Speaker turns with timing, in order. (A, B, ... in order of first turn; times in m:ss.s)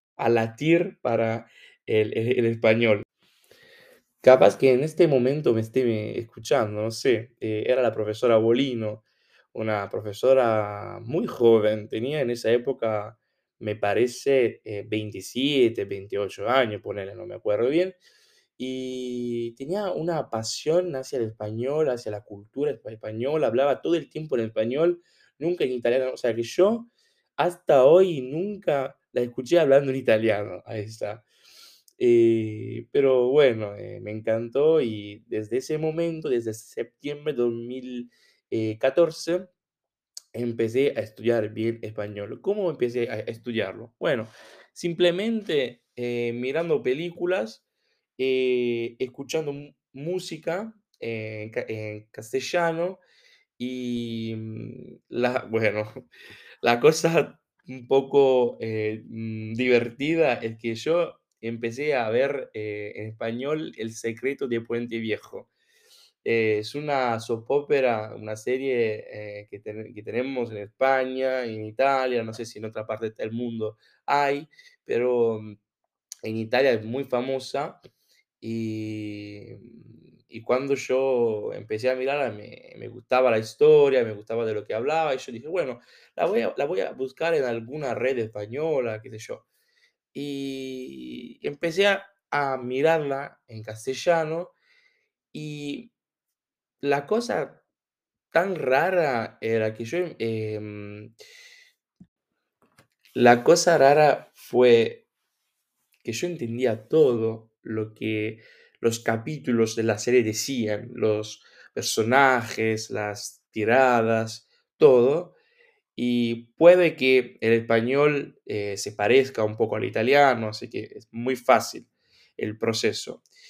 0:00.2-0:03.0 A
0:04.2-0:18.0 A
0:18.6-0:31.2 A
0:32.0-0:39.5 A
0:40.3-0:47.6 A
0:48.2-0:53.0 A
0:53.6-0:55.9 A
0:56.6-1:05.5 A
1:06.2-1:15.6 A
1:16.2-1:17.8 A
1:18.4-1:29.4 A
1:30.1-1:34.6 A
1:35.3-1:35.9 A
1:36.8-1:37.6 A
1:38.3-1:41.1 A
1:43.1-1:45.1 A
1:46.0-1:55.4 A
1:55.9-2:03.2 A